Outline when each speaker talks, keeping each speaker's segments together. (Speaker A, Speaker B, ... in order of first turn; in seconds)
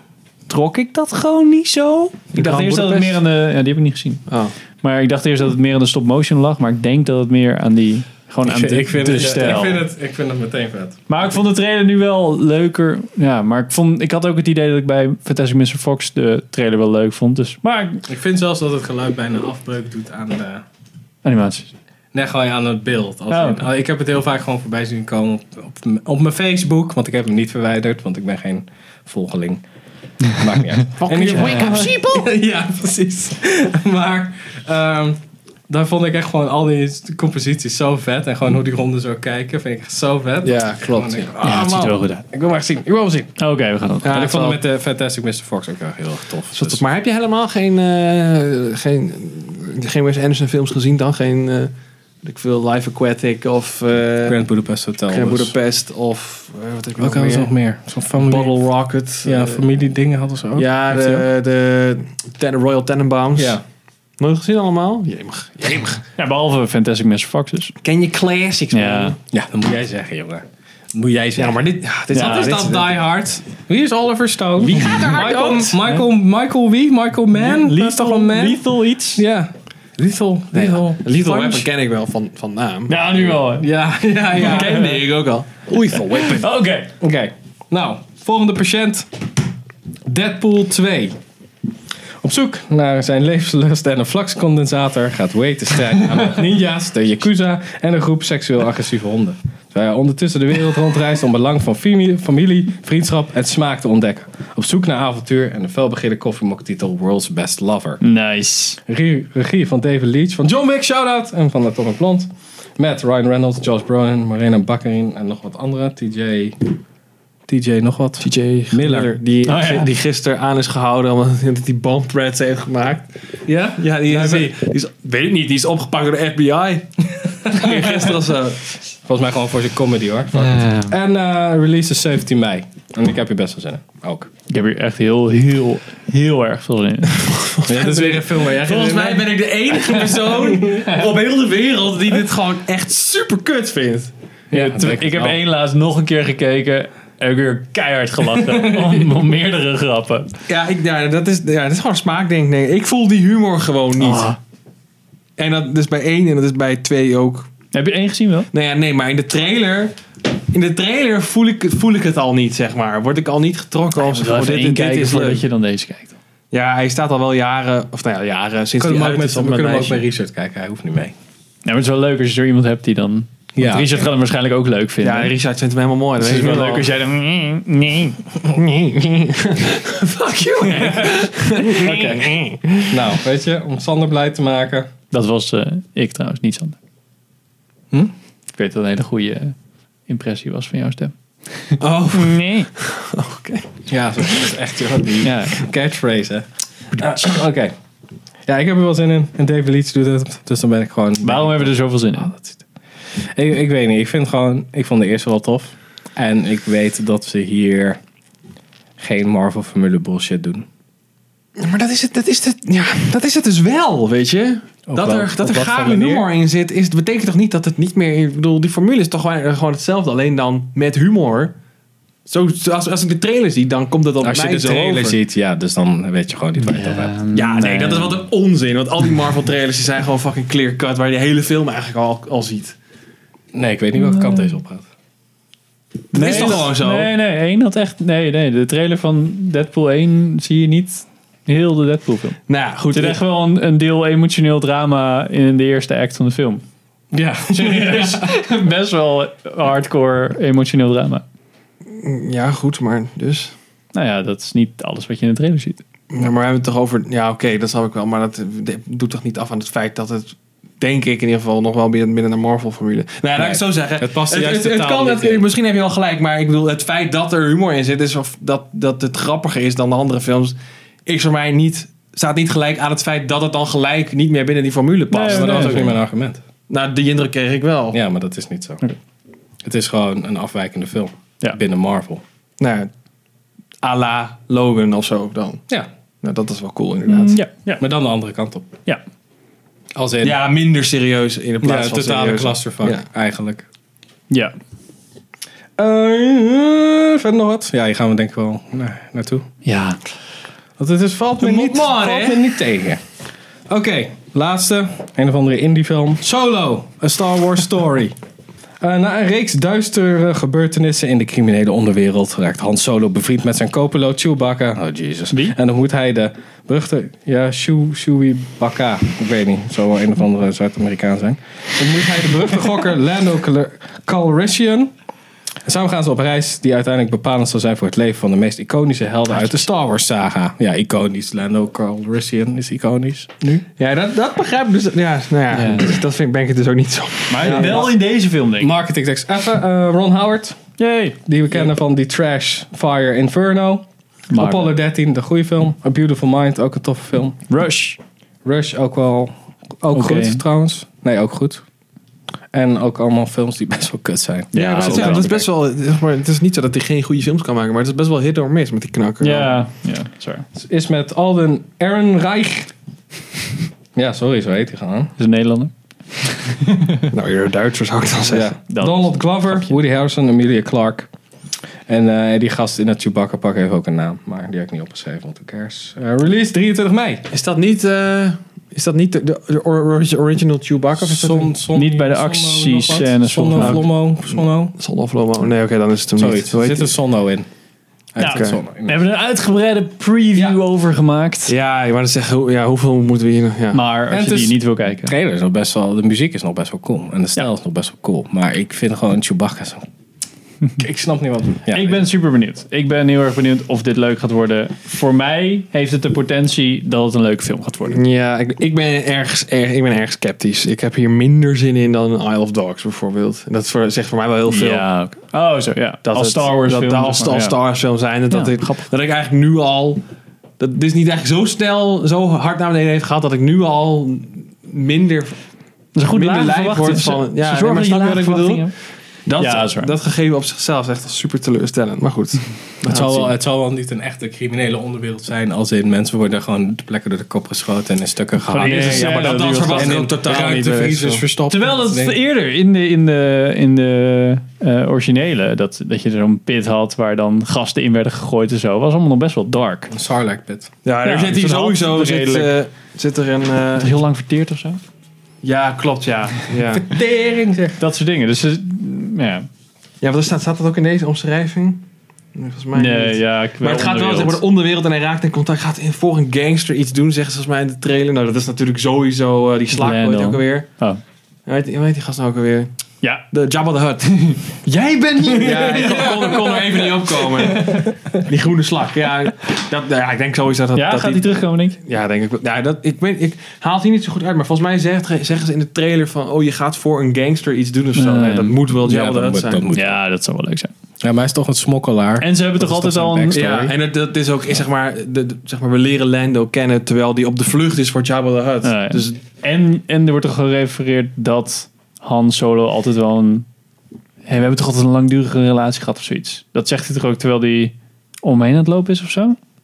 Speaker A: 0.5-4.3, 4.8-9.8, 11.1-18.0, 21.2-21.7, 23.3-23.6, 31.4-31.7, 41.4-42.2, 43.4-44.2, 66.2-67.7, 68.7-69.1, 72.1-72.6, 74.8-76.0, 77.3-79.2, 81.1-81.6, 82.9-83.7, 84.3-85.0, 86.1-86.9, 108.0-108.8, 119.5-119.9, 130.4-130.9, 134.5-137.3, 144.5-150.3, 154.0-154.4, 157.7-158.5, 164.0-166.1, 171.6-175.3, 176.2-178.2, 180.7-181.1, 181.6-181.9, 185.1-186.8, 188.6-189.5, 190.1-192.7, 195.2-195.6, 197.0-197.3, 201.2-202.3, 226.7-228.2, 233.9-234.6, 236.1-242.4, 242.9-246.6, 247.5-251.2, 253.9-255.8, 275.1-275.9, 287.1-287.8, 299.6-300.0, 335.5-335.9, 337.3-338.7, 340.8-341.2, 344.3-344.7, 347.5-348.0, 349.9-350.4, 354.5-355.4, 359.2-360.4, 365.2-367.1, 368.7-369.7, 381.7-383.8, 388.2-391.5, 393.7-395.1, 401.7-408.0, 414.5-417.6, 425.9-428.7, 429.4-429.9, 438.5-440.1, 441.5-449.9, 451.0-452.5, 453.8-454.8, 457.8-459.5, 462.7-464.4, 469.7-471.0, 475.4-475.9, 477.5-477.9, 480.7-481.8, 487.9-488.6, 489.7-490.7, 492.2-493.7, 498.6-503.4, 504.3-509.4
Speaker B: 2.3-3.2, 4.3-4.5, 9.2-9.5, 31.0-32.3, 40.4-41.3, 44.0-44.6, 46.5-51.7, 52.2-54.4, 55.1-57.5, 58.1-59.6, 60.5-63.6, 64.2-66.0, 67.8-69.2, 71.3-73.0, 74.6-75.8, 80.5-83.4, 84.3-86.5, 118.2-123.1, 123.8-126.9, 127.4-128.7, 137.2-144.1, 150.5-154.3, 155.4-157.5, 158.5-165.4, 166.5-170.0, 175.0-177.0, 178.5-182.9, 191.8-193.7, 211.6-221.5, 222.2-225.2, 227.3-232.8, 236.1-237.1, 242.5-243.2, 251.9-253.5, 256.1-275.9, 276.7-278.0, 282.6-282.9, 283.8-285.6, 286.2-287.4, 290.2-293.1, 301.4-302.5, 333.8-337.9, 354.5-359.6, 367.1-368.5, 377.3-381.6, 383.6-386.9, 388.2-388.6, 391.5-393.8, 407.9-414.9, 416.0-420.0, 420.6-425.4, 426.1-428.7, 429.3-433.3, 438.6-441.2, 450.8-453.9, 455.4-456.9, 460.0-470.7, 471.4-472.7, 473.3-489.6, 493.3-499.1
Speaker C: 8.4-11.0, 18.1-20.6, 22.1-29.6, 30.3-43.4, 44.0-46.8, 54.2-55.5, 57.0-58.6, 59.2-61.2, 63.4-63.6, 69.3-81.1, 83.5-84.8, 87.0-89.1, 90.0-91.1, 92.2-108.0, 108.8-116.7, 117.5-119.1, 123.4-124.5, 127.3-127.9, 129.0-134.3, 137.6-139.3, 140.3-140.8, 144.5-145.4, 168.8-171.1, 173.6-174.0, 181.7-184.9, 193.9-197.7, 198.4-202.6, 203.3-208.0, 209.0-210.6, 214.9-216.3, 224.2-227.1, 233.5-234.9, 247.1-248.3, 263.4-265.5, 275.3-276.4, 277.9-278.8, 279.6-282.2, 287.8-288.7, 289.9-290.4, 291.6-293.6, 295.8-299.4, 300.8-303.0, 303.7-308.1, 308.8-324.9, 325.6-333.6, 337.4-338.0, 338.6-340.6, 341.2-347.4, 348.4-351.6, 352.5-355.4, 360.5-362.7, 363.9-365.1, 368.3-371.1, 371.9-377.3, 381.0-384.8, 386.2-387.5, 388.1-389.0, 394.1-399.9, 400.8-402.1, 432.9-439.1, 439.7-442.1, 449.9-450.7, 456.8-457.8, 475.2-477.9, 488.8-490.0, 491.0-493.7